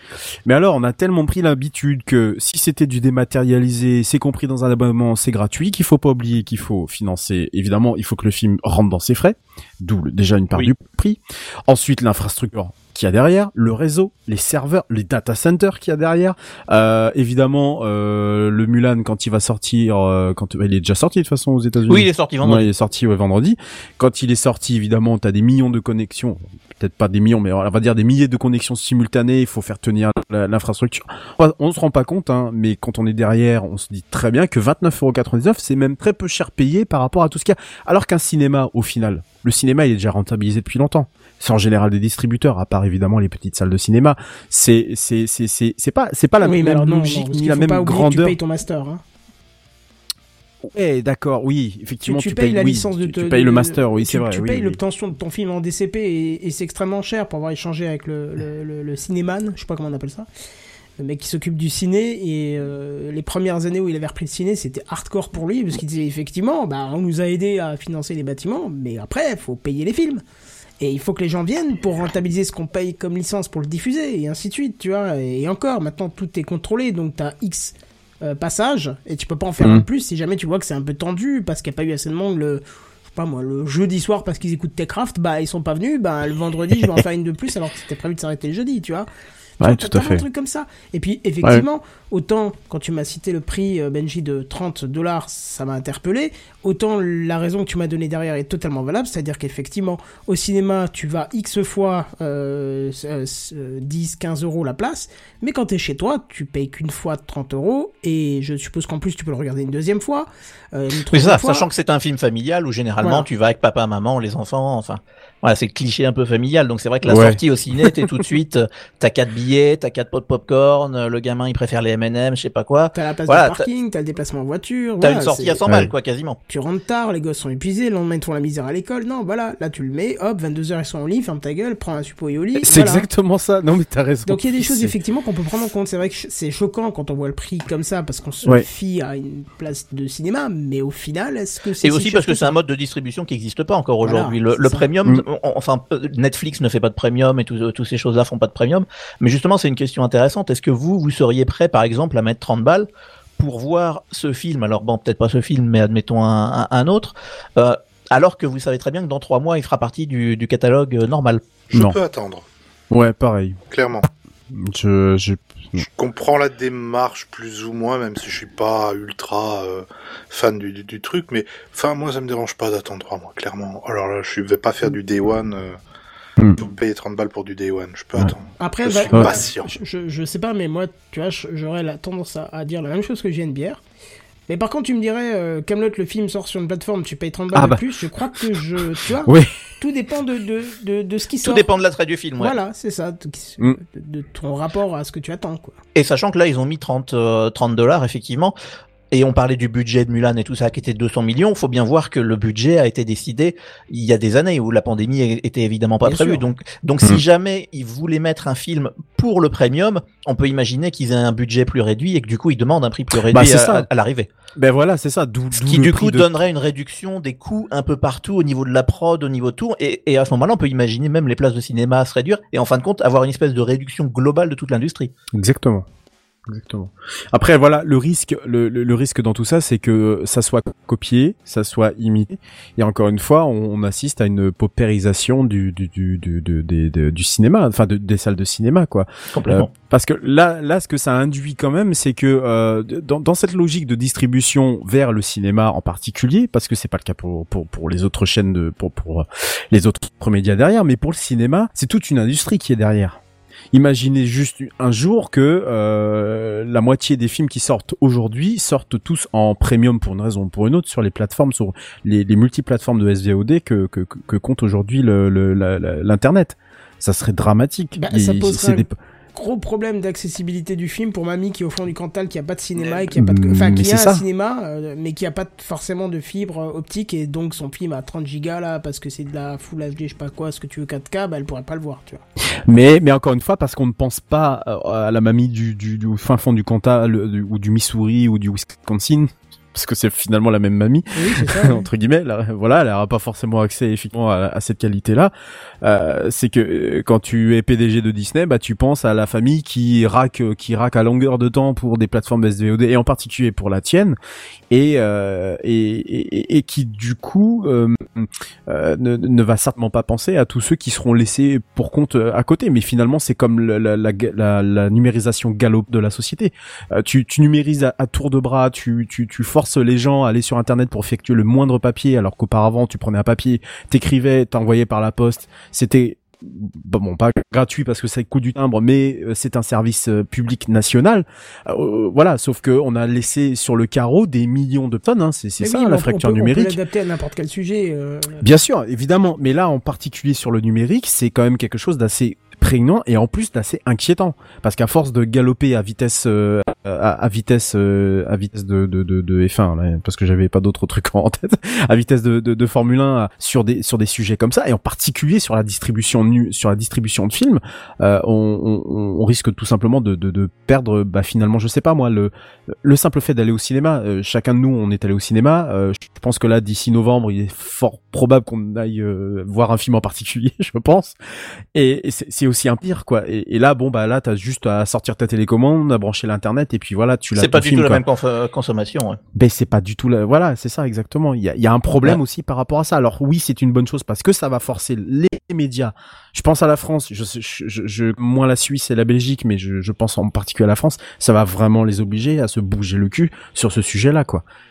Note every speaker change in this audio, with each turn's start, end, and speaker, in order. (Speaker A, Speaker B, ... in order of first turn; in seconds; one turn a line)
Speaker A: 0.4-48.4
Speaker B: 21.9-22.7
Speaker C: 46.4-49.0
Speaker A: 50.6-54.8
Speaker C: 52.0-60.3
Speaker C: 61.0-70.2
Speaker C: 70.8-89.1
Speaker A: 89.6-90.2
Speaker C: 89.6-111.7
Speaker B: 111.1-123.6
Speaker C: 113.0-113.2
Speaker A: 117.0-118.1
Speaker C: 122.9-125.6
Speaker B: 125.0-126.4
Speaker A: 125.6-125.9
Speaker C: 126.5-133.1
Speaker A: 132.6-134.9
Speaker C: 134.2-142.6
Speaker B: 141.8-161.6
Speaker C: 144.0-144.8
Speaker D: 161.7-162.4
Speaker A: 161.7-162.0
Speaker A: 162.9-163.6
Speaker D: 163.7-164.1
Speaker A: 164.5-165.8
Speaker D: 165.8-175.8
Speaker D: 176.5-179.7
Speaker C: 178.6-183.8
Speaker A: 179.1-179.3
Speaker C: 184.5-191.7
Speaker A: 187.5-187.8
Speaker A: 189.2-189.6
Speaker B: 191.4-192.6
Speaker C: 192.4-195.7
Speaker B: 195.9-198.6
Speaker B: 199.1-214.3
Speaker C: 206.0-206.4
Speaker A: 213.1-213.9
Speaker A: 214.6-216.3
Speaker B: 215.6-225.1
Speaker A: 225.3-225.8
Speaker A: 226.4-253.2
Speaker B: 239.3-239.7
Speaker A: 253.7-268.9
Speaker C: 268.0-282.2
Speaker A: 273.1-274.2
Speaker A: 282.7-304.2
Speaker C: 291.1-291.9
Speaker A: 304.7-336.8
Speaker C: 335.6-338.4
Speaker A: 338.4-371.1
Speaker A: 371.7-378.0
Speaker B: 377.4-379.2
Speaker A: 379.3-394.4